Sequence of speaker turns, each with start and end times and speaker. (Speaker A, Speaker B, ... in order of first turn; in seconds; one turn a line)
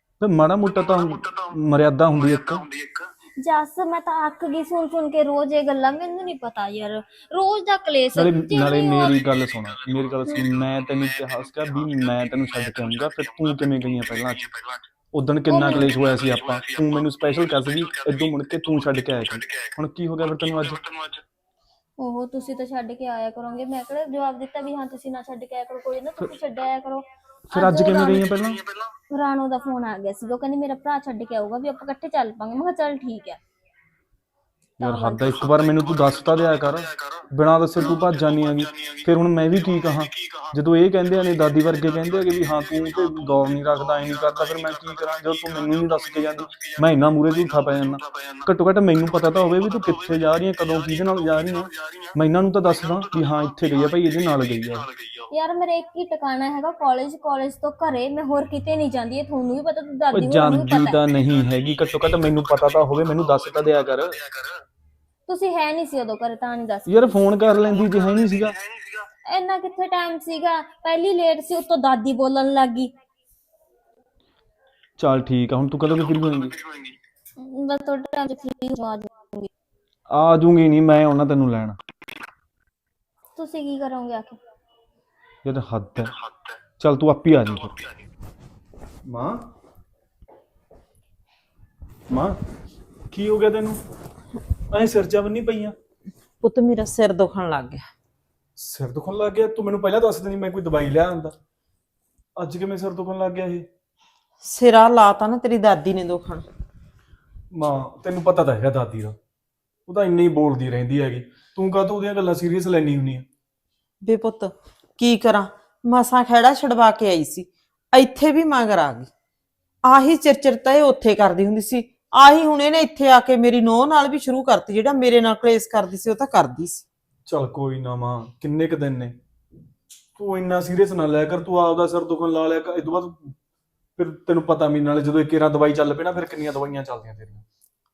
Speaker A: 0.2-2.7
Speaker B: 3.4-9.1
Speaker A: 8.2-14.5
Speaker A: 15.1-20.9
Speaker B: 15.5-15.9
Speaker B: 22.0-28.3
Speaker A: 27.5-28.6
Speaker B: 29.1-33.4
Speaker A: 34.8-54.9
Speaker B: 34.8-35.2
Speaker B: 55.3-61.0
Speaker A: 60.1-64.2
Speaker B: 65.3-67.1
Speaker A: 66.9-68.6
Speaker B: 69.3-72.9
Speaker A: 75.0-76.6
Speaker B: 77.4-79.5
Speaker A: 80.1-81.8
Speaker B: 83.3-84.4
Speaker A: 85.4-86.2
Speaker A: 86.8-87.8
Speaker A: 89.0-89.4
Speaker A: 92.1-92.4
Speaker A: 93.1-93.8
Speaker A: 94.7-95.7
Speaker C: 96.4-97.9
Speaker A: 98.6-101.3
Speaker A: 102.4-103.7
Speaker C: 104.4-106.4
Speaker A: 107.5-109.2
Speaker A: 109.9-113.2
Speaker C: 114.0-119.1
Speaker C: 119.8-126.8
Speaker A: 127.3-129.2
Speaker A: 130.2-133.3
Speaker A: 134.0-137.4